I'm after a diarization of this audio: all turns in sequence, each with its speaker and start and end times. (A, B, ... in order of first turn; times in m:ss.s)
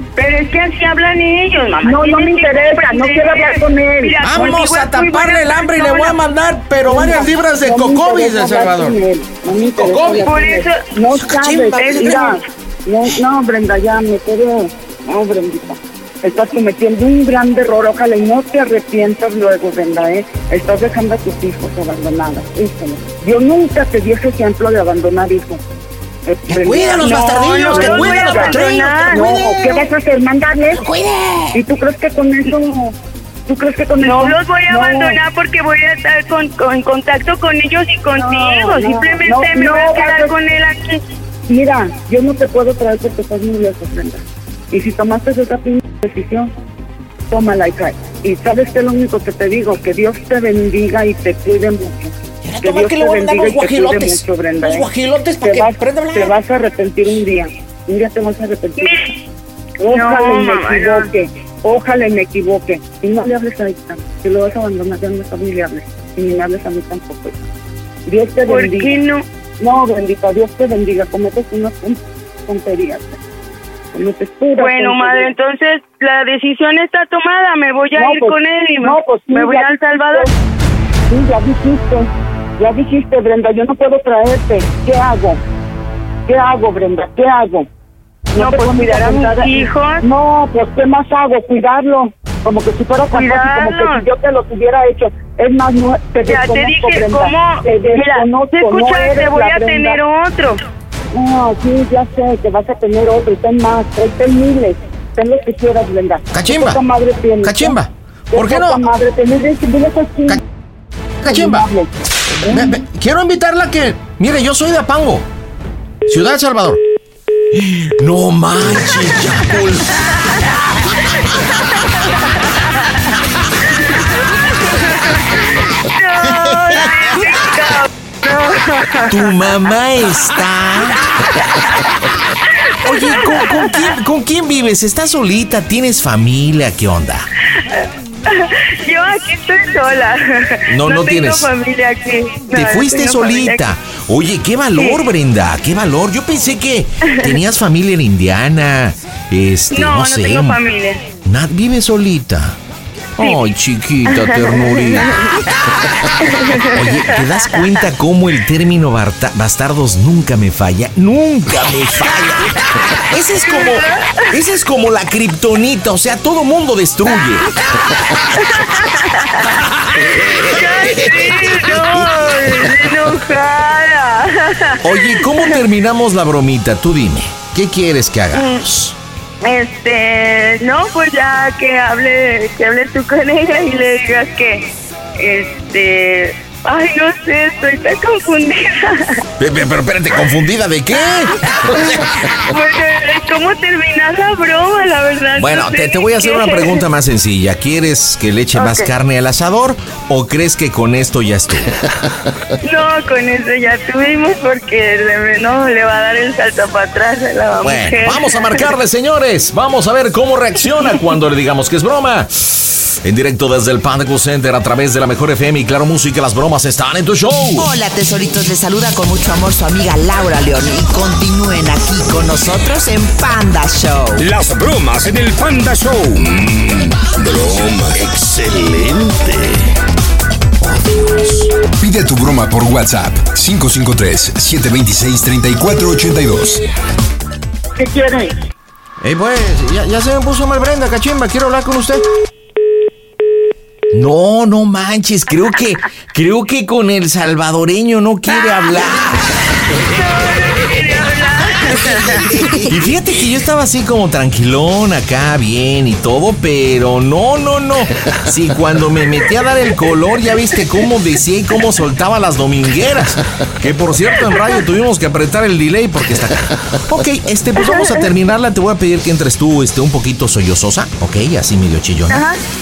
0:00.2-0:06.2 A
0:01.8-0:04.2 B
0:04.2-0:09.0 C
0:06.9-0:25.6 B
0:09.5-0:10.3 C
0:10.2-0:10.8 A
0:11.2-0:12.4 C
0:11.8-0:12.4 A
0:26.3-0:28.6 B
0:26.5-0:29.9 C
0:27.0-0:29.2 A
0:29.1-0:30.8 B
0:30.8-0:31.5 C
0:31.5-0:33.0 B
0:33.5-0:35.2 B
0:34.0-0:41.0 A
0:38.2-0:40.4 B
0:41.5-0:46.5 B
0:47.3-0:54.9 B
0:52.4-0:56.4 C
0:55.4-0:59.1 B
0:58.8-0:59.1 A
0:59.8-1:07.4 B
0:59.9-1:01.1 A
1:08.1-1:08.9 B
1:08.5-1:09.2 A
1:09.6-1:13.2 B
1:13.9-1:15.3 B
1:14.6-1:20.3 A
1:18.0-1:20.3 B
1:21.1-1:25.4 B
1:26.3-1:27.7 B
1:28.3-1:40.0 B
1:28.4-1:30.0 A
1:33.1-1:34.0 A
1:36.2-1:40.6 A
1:41.1-1:47.8 B
1:46.3-1:46.8 C
1:47.4-1:48.8 C
1:48.3-1:50.4 B
1:51.2-1:51.7 C
1:51.2-1:52.8 B
1:52.5-1:55.3 C
1:56.1-1:56.8 C
1:57.5-1:59.9 C
2:04.8-2:05.2 A
2:05.9-2:09.3 A
2:06.4-2:06.8 C
2:09.1-2:11.0 C
2:12.8-2:17.3 C
2:12.8-2:13.7 A
2:17.6-2:23.6 A
2:20.7-2:21.5 C
2:22.5-2:30.6 C
2:24.8-2:25.1 A
2:29.7-2:31.0 A
2:31.2-2:32.6 C
2:33.2-2:35.3 C
2:34.1-2:35.2 A
2:36.2-2:36.8 A
2:36.5-2:47.5 C
2:43.4-2:44.1 A
2:48.4-2:49.6 A
2:50.3-2:52.5 C
2:50.5-2:55.6 A
2:54.8-2:59.0 C
2:58.3-2:58.6 A
2:59.4-3:04.7 A
3:05.2-3:09.2 A
3:09.4-3:12.1 C
3:12.4-3:16.8 A
3:15.4-3:21.7 C
3:18.6-3:18.9 A
3:22.6-3:28.7 A
3:27.6-3:37.7 C
3:37.6-3:44.2 D
3:44.2-3:49.5 E
3:51.8-3:56.6 F
3:57.8-3:58.4 B
3:59.0-4:02.0 C
4:03.9-4:09.4 C
4:09.7-4:12.5 A
4:11.8-4:32.2 C
4:27.6-4:27.9 A
4:32.1-4:32.4 A